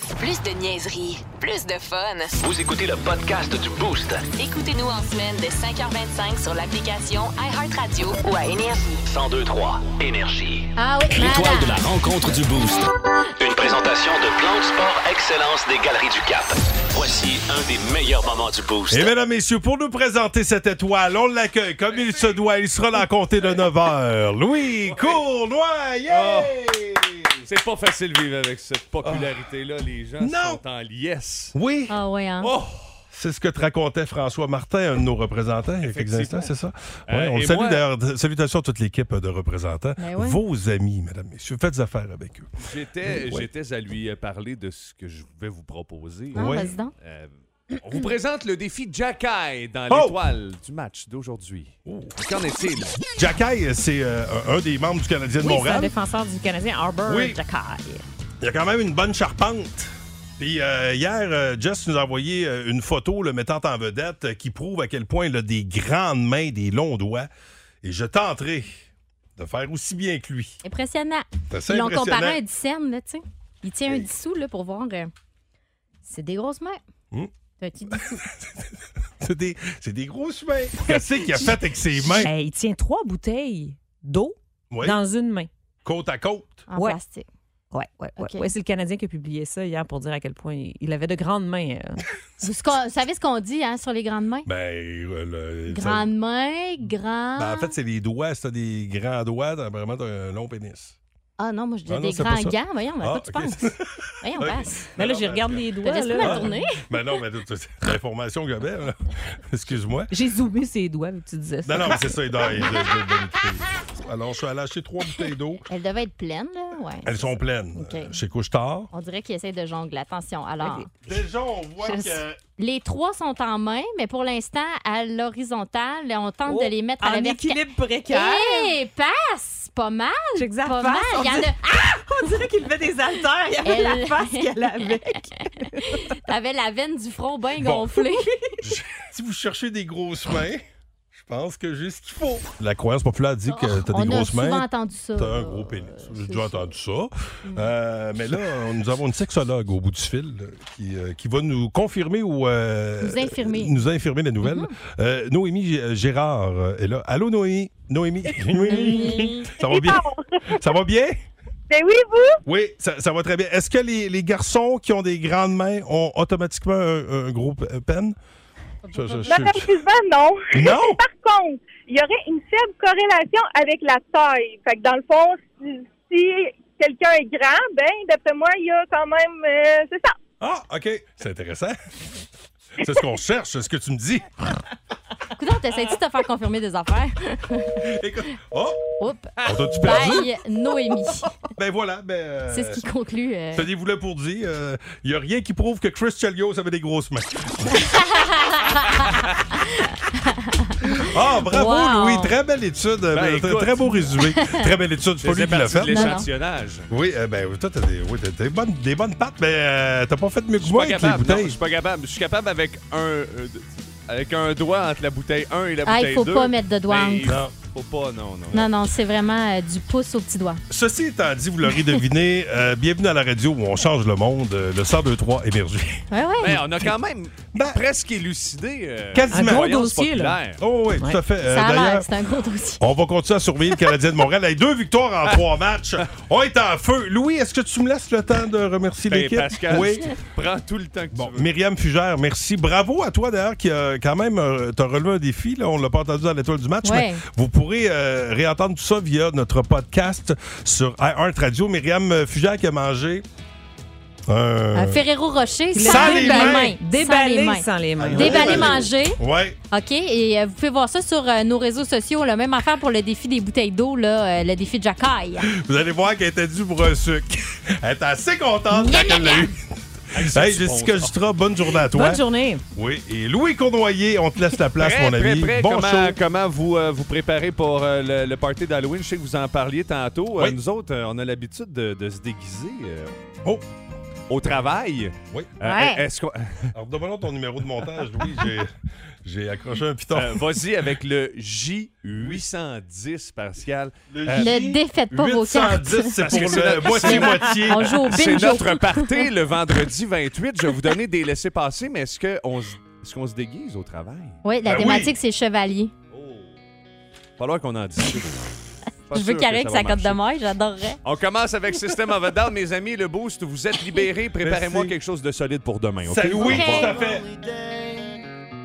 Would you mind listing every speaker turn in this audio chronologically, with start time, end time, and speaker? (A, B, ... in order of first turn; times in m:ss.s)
0:00.2-0:02.4 A
0:02.4-0:04.3 B
0:04.4-0:09.0 A
0:09.1-0:19.1 B
0:10.8-0:11.8 C
0:18.9-0:27.4 D
0:21.9-0:22.3 E
0:24.8-0:25.2 E
0:26.1-0:26.6 E
0:27.4-0:31.5 E
0:29.0-0:29.3 D
0:30.2-0:30.6 D
0:31.5-0:31.9 D
0:31.9-0:32.5 C
0:32.4-0:33.0 E
0:33.1-0:42.5 D
0:35.8-0:36.5 E
0:37.1-0:37.8 E
0:40.0-0:40.4 C
0:42.6-0:53.0 E
0:43.0-0:43.4 D
0:46.3-0:46.7 D
0:46.3-0:46.9 C
0:49.9-0:50.2 D
0:51.8-0:52.2 D
0:53.2-0:55.9 D
0:55.4-0:58.0 F
0:57.1-0:57.4 D
0:58.4-1:07.3 D
1:07.8-1:08.8 D
1:09.4-1:10.6 D
1:10.6-1:15.1 C
1:11.5-1:12.4 D
1:16.0-1:16.8 C
1:17.6-1:18.2 C
1:18.0-1:18.7 D
1:19.2-1:22.3 D
1:22.2-1:25.5 F
1:24.7-1:25.0 D
1:25.8-1:26.7 D
1:26.7-1:27.3 C
1:26.7-1:27.0 F
1:27.7-1:32.0 F
1:28.2-1:28.5 C
1:32.4-1:34.5 C
1:34.4-1:36.1 D
1:35.7-1:37.7 C
1:37.4-1:41.0 D
1:41.4-1:43.6 C
1:41.9-1:50.1 D
1:44.2-1:44.9 C
1:45.0-1:46.5 F
1:45.8-1:46.8 C
1:50.1-1:52.2 F
1:51.6-1:55.7 D
1:55.7-1:58.2 C
1:57.0-1:58.9 D
1:58.9-2:00.9 C
2:00.6-2:00.9 F
2:01.0-2:02.4 D
2:02.6-2:12.0 C
2:06.4-2:08.7 F
2:10.4-2:16.1 F
2:13.6-2:14.8 C
2:15.8-2:18.3 C
2:17.6-2:17.9 D
2:18.6-2:20.6 D
2:21.2-2:41.2 D
2:23.5-2:26.7 C
2:33.0-2:33.7 C
2:34.4-2:34.7 C
2:38.7-2:39.5 C
2:39.6-2:40.7 G
2:41.7-2:42.4 G
2:42.4-2:48.1 D
2:48.8-2:49.3 C
2:48.9-2:49.8 D
2:49.3-3:00.1 G
2:50.5-2:51.0 D
3:00.4-3:01.8 D
3:02.8-3:04.3 D
3:05.4-3:07.8 C
3:07.8-3:08.8 D
3:09.0-3:11.3 C
3:09.4-3:10.0 E
3:09.4-3:10.3 D
3:11.6-3:12.8 D
3:12.5-3:13.6 C
3:13.5-3:18.1 D
3:17.8-3:19.0 C
3:18.8-3:19.4 E
3:19.6-3:22.3 C
3:20.8-3:26.2 D
3:23.1-3:24.1 E
3:25.2-3:26.9 E
3:25.9-3:26.3 C
3:26.9-3:31.6 D
3:30.6-3:38.7 E
3:35.8-3:37.4 C
3:37.3-3:37.5 D
3:38.5-3:40.6 C
3:40.7-3:46.9 D
3:46.1-3:46.6 C
3:46.4-3:50.6 E
3:47.5-3:47.8 D
3:49.1-3:49.8 D
3:49.3-3:50.4 F
3:50.6-3:52.1 D
3:51.5-3:52.8 C
3:52.8-4:00.2 D
3:59.1-4:01.5 E
4:01.1-4:13.2 D
4:06.8-4:07.2 C
4:14.3-4:15.0 D
4:14.7-4:19.2 C
4:15.7-4:18.8 F
4:15.8-4:16.8 D
4:18.0-4:19.6 D
4:19.7-4:25.5 C
4:25.5-4:29.6 D
4:28.8-4:29.5 C
4:30.1-4:31.2 E
4:30.1-4:32.2 D
4:31.9-4:32.6 F
4:32.7-4:36.2 D
4:34.8-4:43.2 E
4:44.3-4:46.7 E
4:45.6-4:46.0 C
4:46.7-4:48.7 D
4:49.2-4:50.6 D
4:50.1-4:54.5 E
4:54.1-4:58.1 D
4:54.3-4:59.2 C
4:56.2-5:04.4 E
5:04.4-5:05.9 C
5:04.6-5:05.1 D
5:06.1-5:06.5 E
5:07.4-5:10.2 E
5:09.1-5:11.0 C
5:11.0-5:17.0 E
5:14.4-5:14.9 D
5:16.0-5:17.2 D
5:16.4-5:17.0 C